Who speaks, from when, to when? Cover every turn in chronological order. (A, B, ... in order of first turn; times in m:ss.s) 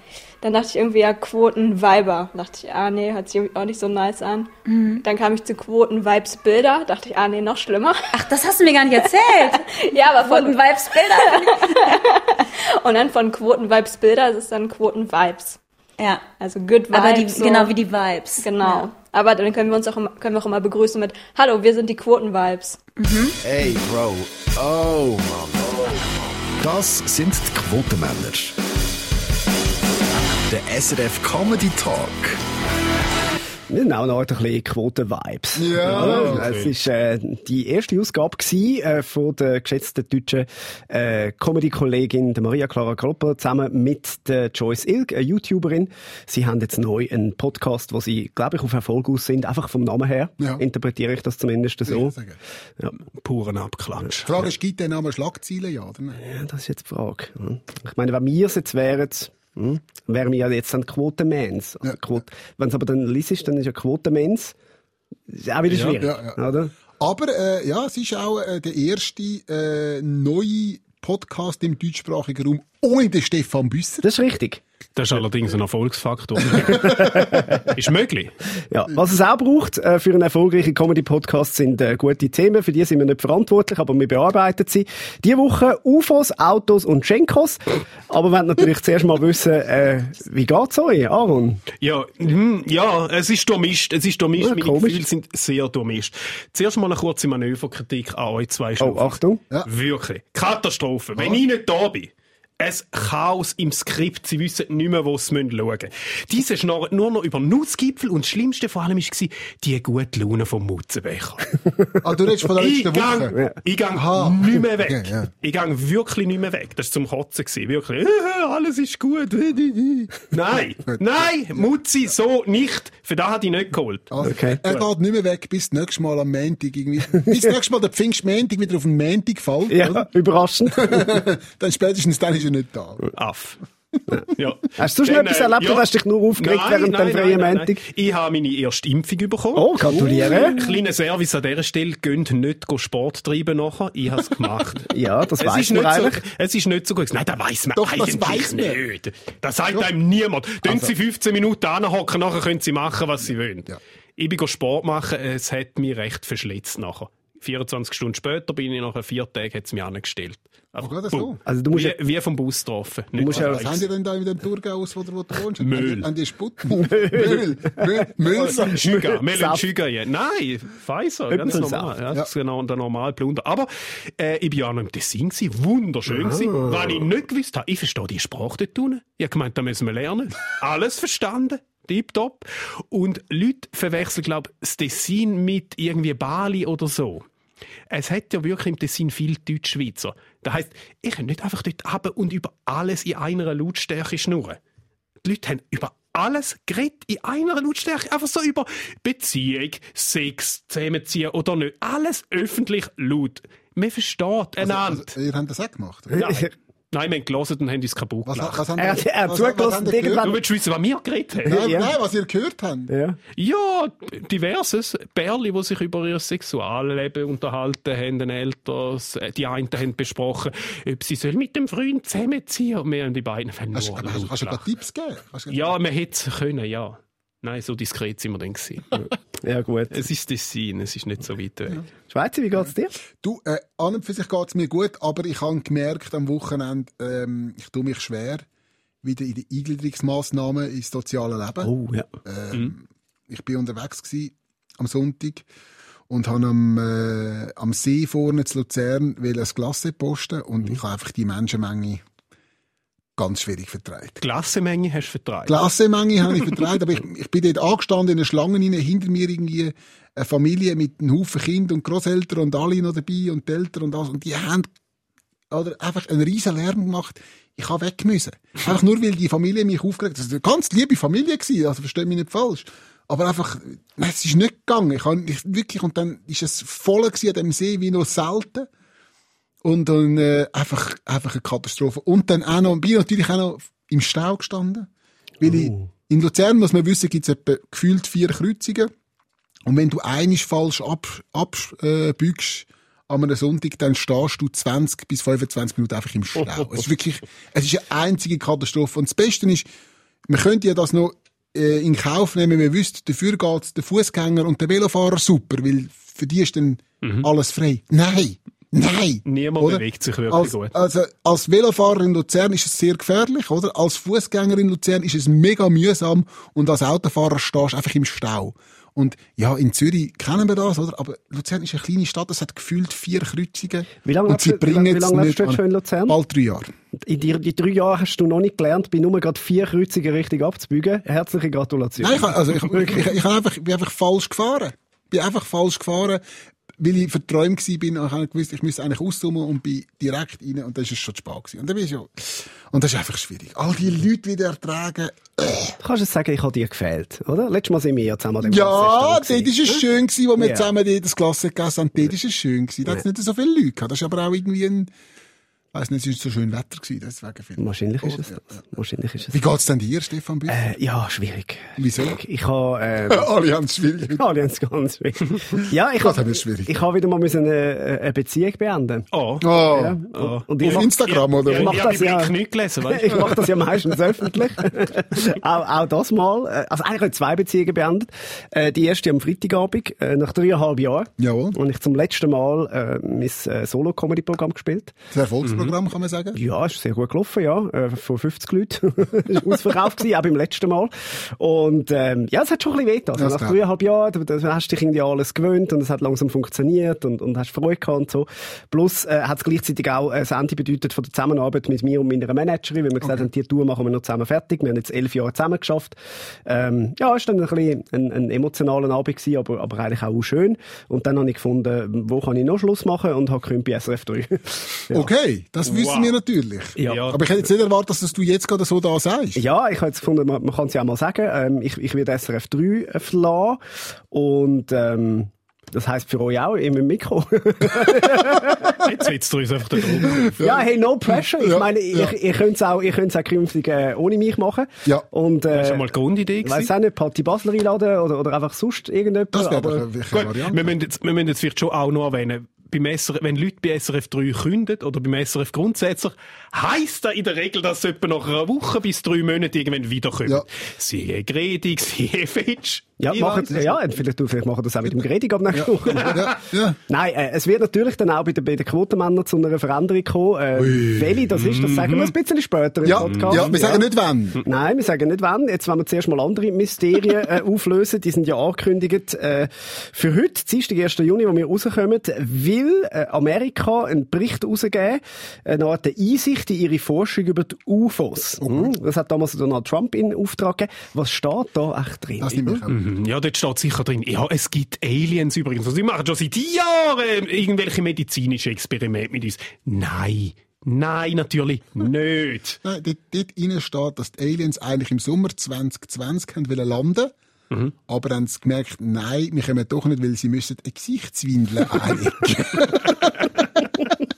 0:00.4-0:04.5 A
0:04.7-0:05.0 B
0:05.0-0:08.1 A
0:08.1-0:09.7 B
0:09.6-0:15.6 A
0:10.2-0:11.9 B
0:16.0-0:16.2 B
0:16.4-0:17.8 A
0:16.9-0:18.9 B
0:18.4-0:22.8 A
0:23.0-0:23.4 B
0:23.4-0:26.0 C
0:26.6-0:28.5 C
0:30.5-0:32.4 C
0:33.7-0:52.2 D
0:35.6-0:36.5 E
0:35.8-0:36.7 F
0:51.9-0:52.4 E
0:53.1-0:54.5 F
0:54.2-0:56.2 E
0:56.2-1:04.5 D
1:05.3-1:06.7 D
1:05.7-1:06.0 F
1:06.0-1:06.4 E
1:07.0-1:14.1 E
1:14.0-1:14.6 D
1:15.0-1:18.3 F
1:16.6-1:17.0 E
1:16.8-1:17.7 D
1:18.7-1:31.6 D
1:31.8-1:51.6 F
1:34.4-1:35.0 D
1:38.8-1:39.4 D
1:41.2-1:41.4 E
1:52.0-1:53.4 E
1:52.6-2:04.8 F
1:53.9-1:55.3 E
2:04.1-2:10.1 E
2:04.2-2:04.6 D
2:09.7-2:11.2 D
2:10.8-2:13.1 E
2:13.1-2:13.6 F
2:14.3-2:43.8 F
2:14.8-2:17.8 D
2:19.6-2:20.6 D
2:24.9-2:26.2 D
2:27.8-2:28.8 E
2:30.6-2:30.9 E
2:40.8-2:41.4 E
2:41.5-2:42.0 D
2:43.2-2:43.8 D
2:43.2-2:48.8 E
2:45.6-2:46.1 F
2:46.7-2:49.6 D
2:48.3-3:07.2 F
2:51.3-2:52.0 D
2:56.1-2:57.0 D
3:07.9-3:14.6 F
3:15.2-3:25.2 F
3:24.6-3:26.3 E
3:26.1-3:26.5 D
3:26.1-3:28.7 F
3:28.2-3:30.4 E
3:28.8-3:30.4 D
3:30.2-3:31.6 F
3:31.4-3:32.9 E
3:31.5-3:31.9 D
3:32.9-3:33.2 D
3:33.4-3:44.6 F
3:43.7-3:45.7 E
3:45.5-3:48.9 F
3:49.4-3:50.0 D
3:49.9-3:51.8 F
3:52.1-3:53.0 D
3:53.2-3:58.4 E
3:59.0-4:01.7 E
4:01.6-4:02.1 D
4:02.2-4:05.5 E
4:06.1-4:12.0 E
4:13.2-4:14.2 E
4:14.2-4:15.6 F
4:15.5-4:24.7 E
4:25.5-4:38.7 E
4:39.6-4:44.9 E
4:45.4-4:48.9 E
4:49.7-4:59.7 E
5:00.3-5:26.7 E
5:07.0-5:07.3 F
5:09.3-5:10.8 F
5:24.0-5:26.2 D
5:27.0-5:32.9 D
5:32.0-5:36.2 E
5:36.8-5:45.8 E
5:45.8-5:49.8 D
5:48.4-5:54.9 E
5:50.4-5:50.7 D
5:55.7-5:58.6 E
5:57.6-5:59.4 D
5:59.3-6:00.6 E
6:00.5-6:03.3 D
6:01.8-6:02.2 E
6:03.1-6:04.2 E
6:04.1-6:10.9 D
6:06.0-6:06.7 E
6:09.1-6:09.5 F
6:09.4-6:10.0 E
6:10.1-6:13.6 F
6:10.6-6:11.8 E
6:11.5-6:12.3 D
6:12.9-6:24.9 D
6:21.2-6:21.6 E
6:25.1-6:26.4 E
6:25.4-6:25.7 F
6:26.4-6:55.1 D
6:33.2-6:33.6 E
6:54.9-6:59.4 E
6:55.7-6:56.2 F
6:56.8-6:57.2 F
6:56.8-6:57.1 D
6:59.4-7:03.6 D
7:04.1-7:08.8 D
7:08.7-7:10.3 F
7:10.2-7:12.1 E
7:10.2-7:15.8 D
7:15.5-7:16.7 F
7:16.4-7:19.9 D
7:19.3-7:20.8 E
7:20.1-7:33.8 F
7:33.0-7:43.9 D
7:35.5-7:36.8 E
7:40.6-7:41.3 E
7:41.3-7:42.1 F
7:42.8-7:44.4 E
7:43.0-7:43.6 F
7:44.4-8:02.7 D
7:58.4-7:58.7 E
8:02.2-8:02.8 E
8:02.7-8:12.6 F
8:12.6-8:17.2 E
8:17.9-8:23.3 E